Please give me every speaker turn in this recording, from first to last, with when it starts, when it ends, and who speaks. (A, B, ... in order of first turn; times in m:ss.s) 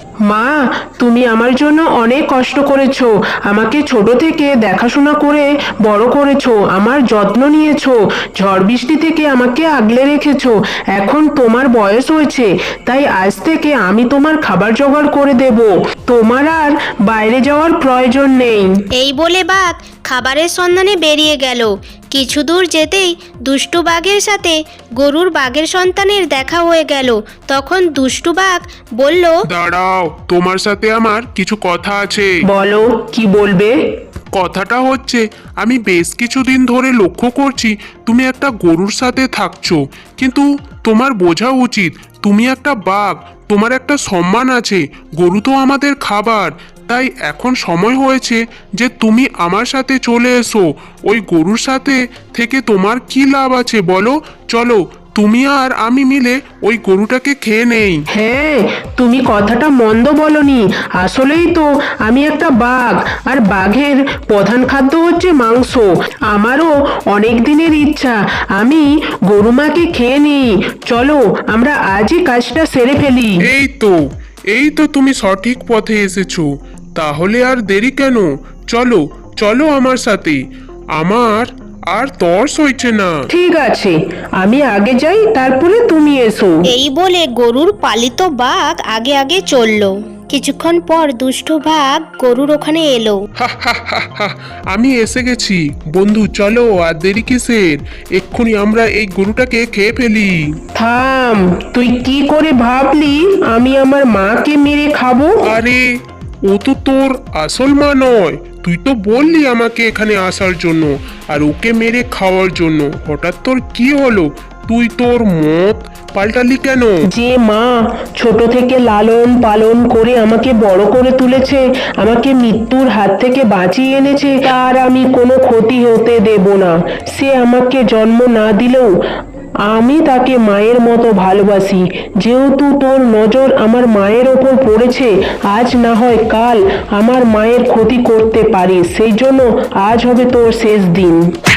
0:00.3-0:18.7 A
0:19.0-0:29.4 B
0:29.5-0:32.3 C
0:32.4-0:33.7 A
0:34.3-0:58.0 C
0:58.1-1:13.4 A
1:13.4-1:14.0 C
1:14.5-1:20.4 C
1:21.0-1:23.2 C
1:23.3-1:26.5 A
1:26.7-1:33.2 B
1:33.4-1:40.4 C
1:40.8-1:45.4 A
1:45.4-1:45.8 C
1:46.5-1:57.0 C
1:57.1-2:08.9 A
2:09.7-2:21.2 A